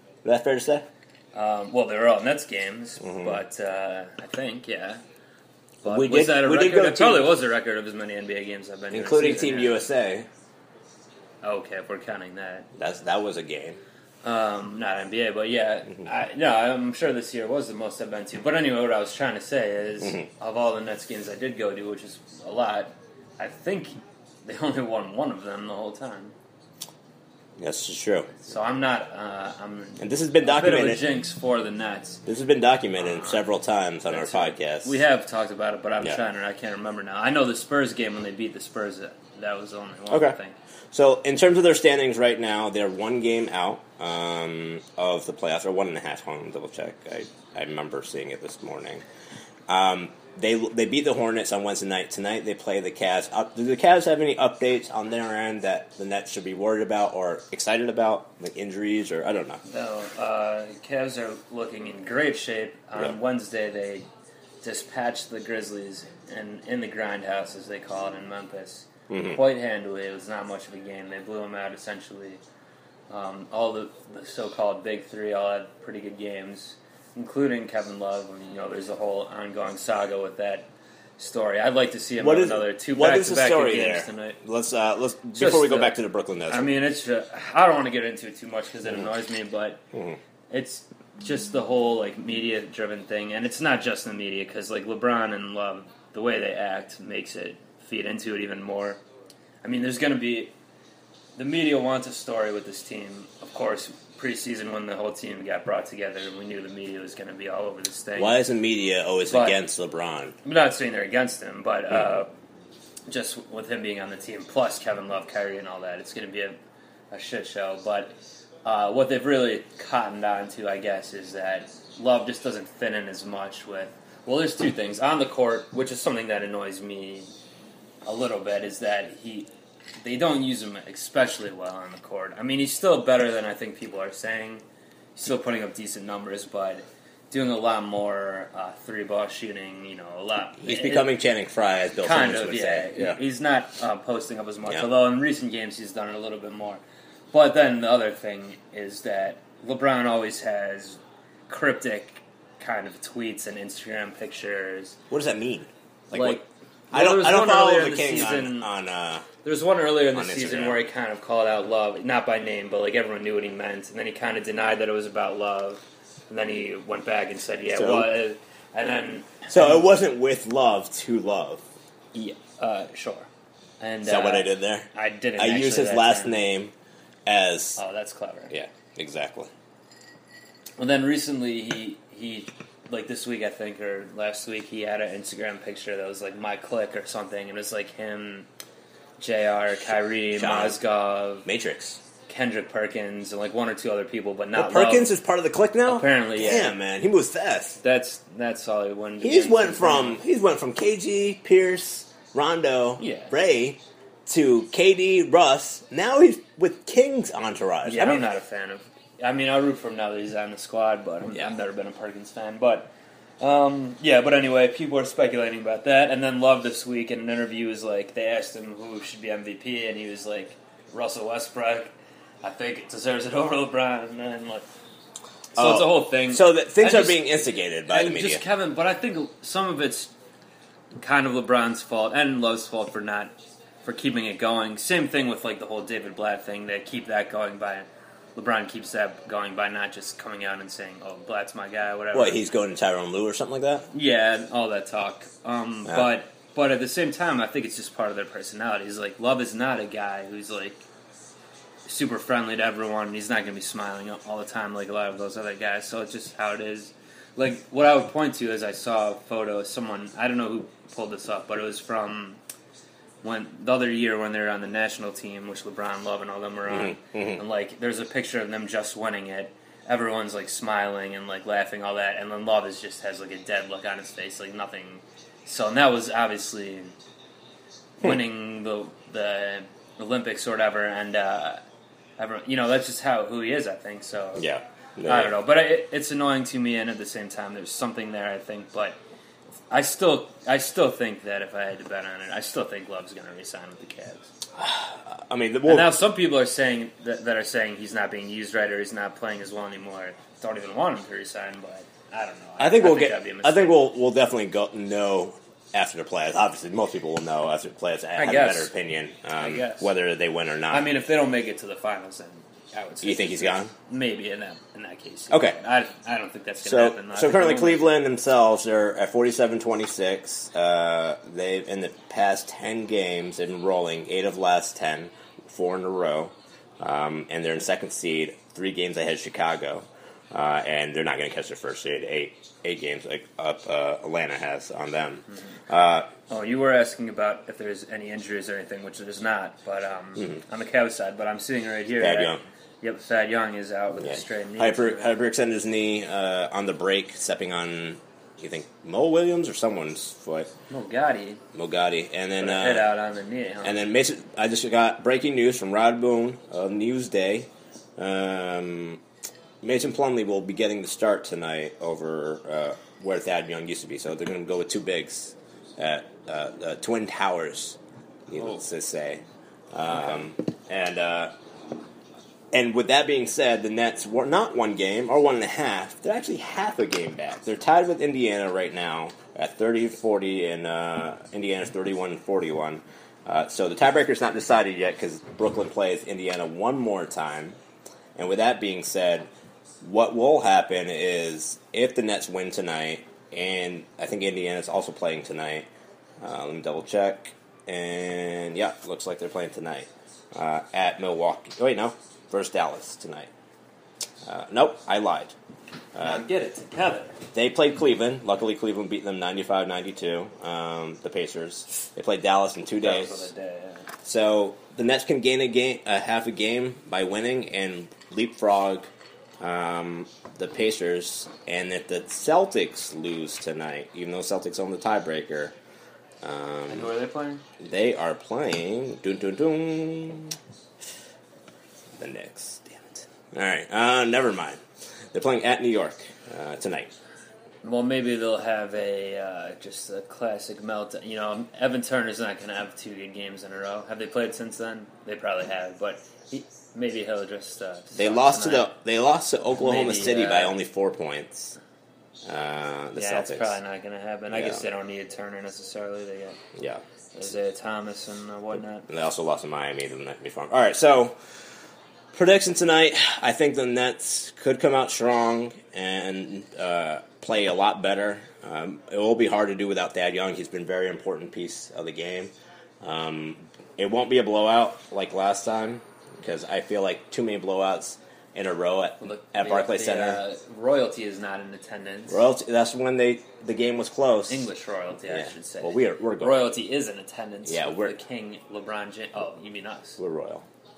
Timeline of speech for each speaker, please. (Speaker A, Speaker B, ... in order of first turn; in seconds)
Speaker A: 0.2-0.9, 3.0-3.4, 5.9-7.3, 8.9-10.3, 12.8-13.8, 27.6-28.3, 30.0-31.0, 32.3-35.0, 40.1-40.4, 40.9-49.0, 49.7-59.6, 69.1-69.4, 82.2-86.7, 89.9-90.2, 108.2-110.3, 140.6-143.2, 155.1-159.3, 160.1-160.8, 167.8-168.1, 169.5-171.6, 174.0-176.7, 177.3-177.8, 178.5-179.5, 190.3-190.8, 191.4-192.0, 194.6-197.8, 199.2-208.3, 225.6-228.4, 242.1-243.9, 266.7-267.4, 284.4-285.4, 294.6-296.0, 302.6-310.9, 313.0-313.7, 315.3-315.6, 316.6-336.1, 342.0-342.4, 344.0-350.5, 351.5-352.9, 353.6-359.0, 359.6-367.8, 368.3-371.3, 372.5-387.6, 388.2-389.3, 389.8-395.7, 396.2-403.3, 404.2-405.4, 405.9-406.2, 407.3-413.3, 414.0-418.9, 419.4-425.5, 426.2-426.9, 427.6-430.4, 432.0-434.6, 435.1-436.9, 448.0-451.6, 452.2-453.6, 454.3-454.6, 456.6-456.8, 458.9-461.2, 462.1-480.2, 482.1-484.5, 485.1-486.5, 487.5-488.0, 490.0-490.5
Speaker B: 1.3-5.0, 5.8-9.8, 11.4-12.7, 14.2-26.3, 28.4-32.2, 33.0-33.4, 34.1-40.6, 59.6-64.1, 64.6-72.4, 73.1-84.4, 85.3-86.0, 86.5-89.8, 90.5-99.0, 99.6-100.5, 101.4-108.4, 109.3-109.6, 110.4-112.3, 113.1-116.6, 117.1-118.1, 118.7-127.3, 128.1-129.5, 130.0-134.6, 135.2-141.1, 142.0-146.8, 147.3-155.0, 156.1-158.7, 159.4-169.8, 172.1-173.3, 173.8-176.4, 177.8-178.5, 180.8-188.5, 189.2-191.5, 192.3-195.1, 195.9-196.8, 197.8-200.2, 203.0-203.3, 207.8-221.9, 222.4-224.6, 225.5-227.3, 227.9-230.1, 231.0-233.3, 233.8-242.4, 243.9-250.8, 251.9-262.4, 263.2-276.9, 278.0-281.6, 282.2-284.4, 285.1-289.0, 289.7-294.3, 295.6-303.9, 308.2-308.7, 309.4-309.9, 310.7-317.9, 336.3-345.2, 350.7-351.4, 352.4-353.9, 406.0-407.2, 412.8-413.9, 426.7-427.4, 437.6-448.7, 449.6-450.6, 453.0-456.4, 457.1-458.9, 479.0-482.3, 484.3-490.0